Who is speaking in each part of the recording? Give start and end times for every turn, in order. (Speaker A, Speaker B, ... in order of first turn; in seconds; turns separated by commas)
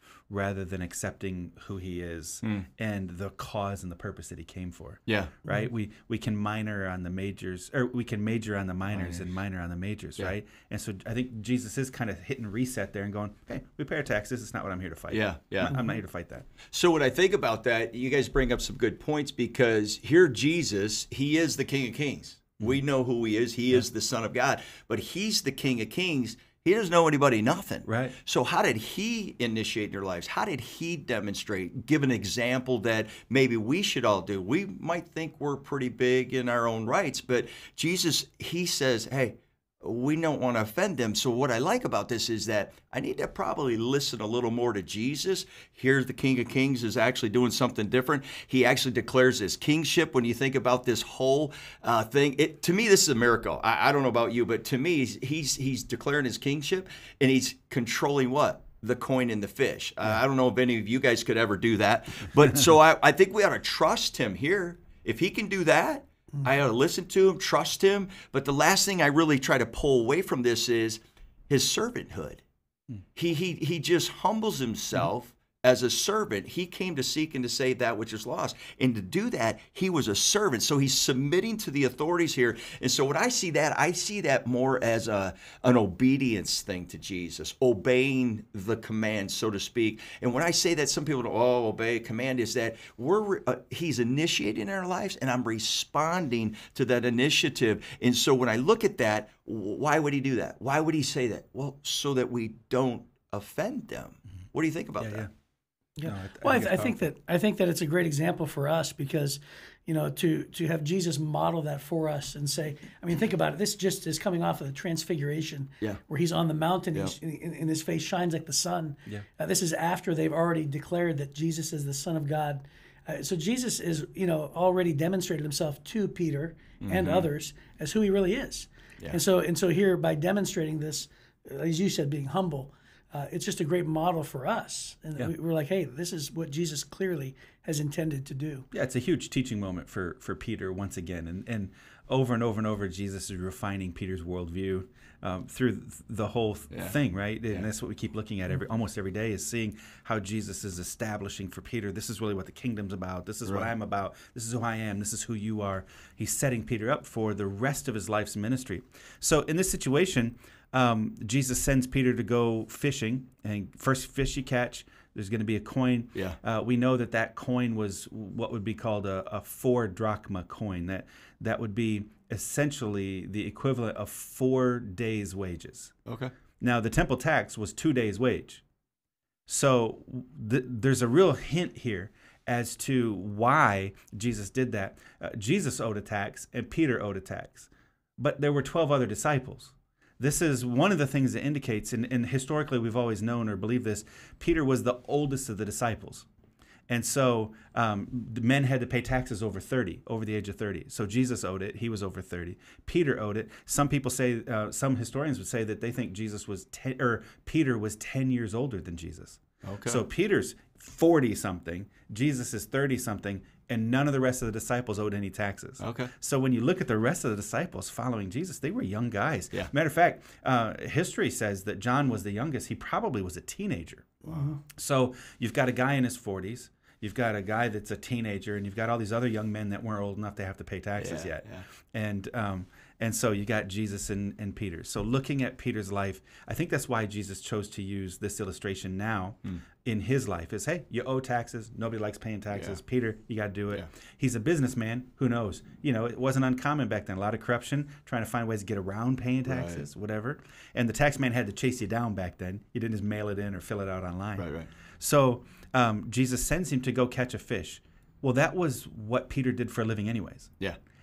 Speaker A: 0.3-16.5, Speaker B: 2.4-2.7, Speaker B: 5.1-5.4, Speaker B: 8.9-9.3, Speaker B: 15.1-15.7, Speaker C: 15.7-16.0, Speaker B: 16.7-72.4, Speaker A: 27.9-28.1, Speaker B: 73.2-105.2, Speaker A: 105.0-105.3, Speaker C: 106.0-138.7, Speaker A: 106.0-107.1, Speaker B: 126.8-127.3, Speaker A: 138.7-175.9, Speaker B: 146.7-147.7, Speaker B: 153.4-153.7, Speaker B: 176.1-176.3, Speaker A: 176.6-178.6, Speaker A: 179.5-196.3, Speaker A: 196.9-224.2, Speaker B: 209.6-210.0, Speaker B: 215.8-216.1, Speaker B: 224.2-224.6, Speaker C: 224.2-224.6, Speaker A: 224.8-260.5, Speaker B: 231.0-231.7, Speaker B: 242.5-242.8, Speaker B: 249.5-249.9, Speaker B: 254.4-254.7